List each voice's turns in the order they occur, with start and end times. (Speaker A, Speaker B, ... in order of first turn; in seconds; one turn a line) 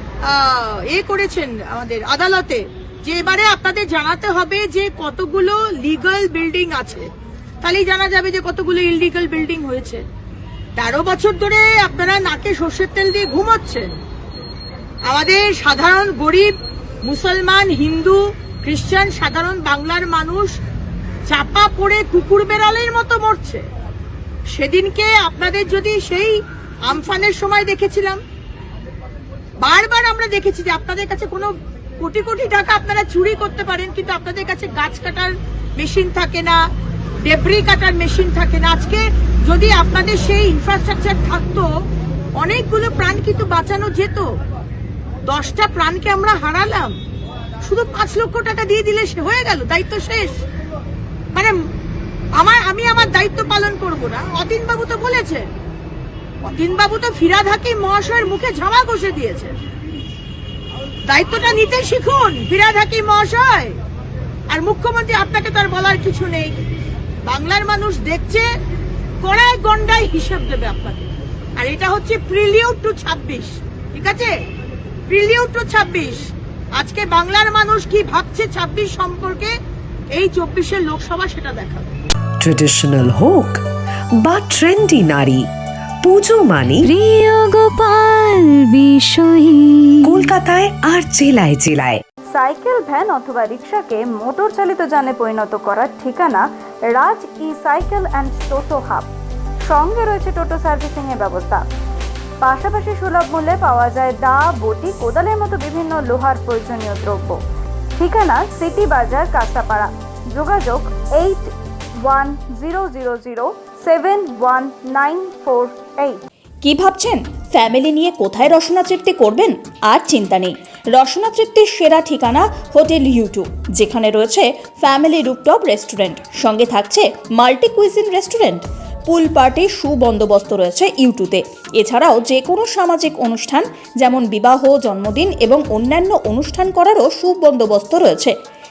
Speaker A: 0.2-7.1
Speaker A: 7.6-10.0
Speaker A: 10.8-13.9
Speaker A: 15.1-20.6
Speaker A: 21.3-23.6
Speaker A: 24.5-28.2
Speaker A: 29.6-36.6
Speaker A: 37.2-41.7
Speaker A: 42.4-44.3
Speaker A: 45.3-47.0
Speaker A: 47.6-50.4
Speaker A: 52.4-55.5
Speaker A: 56.4-59.5
Speaker A: 61.1-63.8
Speaker A: 64.5-66.7
Speaker A: 67.2-68.5
Speaker A: 69.2-74.3
Speaker A: 75.1-76.2
Speaker A: 76.8-79.5
Speaker A: 80.1-81.9
Speaker B: 82.4-83.6
Speaker B: 84.2-85.4
Speaker B: 86.0-86.9
Speaker C: 86.8-90.3
Speaker B: 90.0-92.0
Speaker D: 92.3-99.1
Speaker D: 99.7-101.7
Speaker D: 102.4-107.4
Speaker D: 108.0-111.5
Speaker D: 112.0-116.2
Speaker E: 116.6-138.3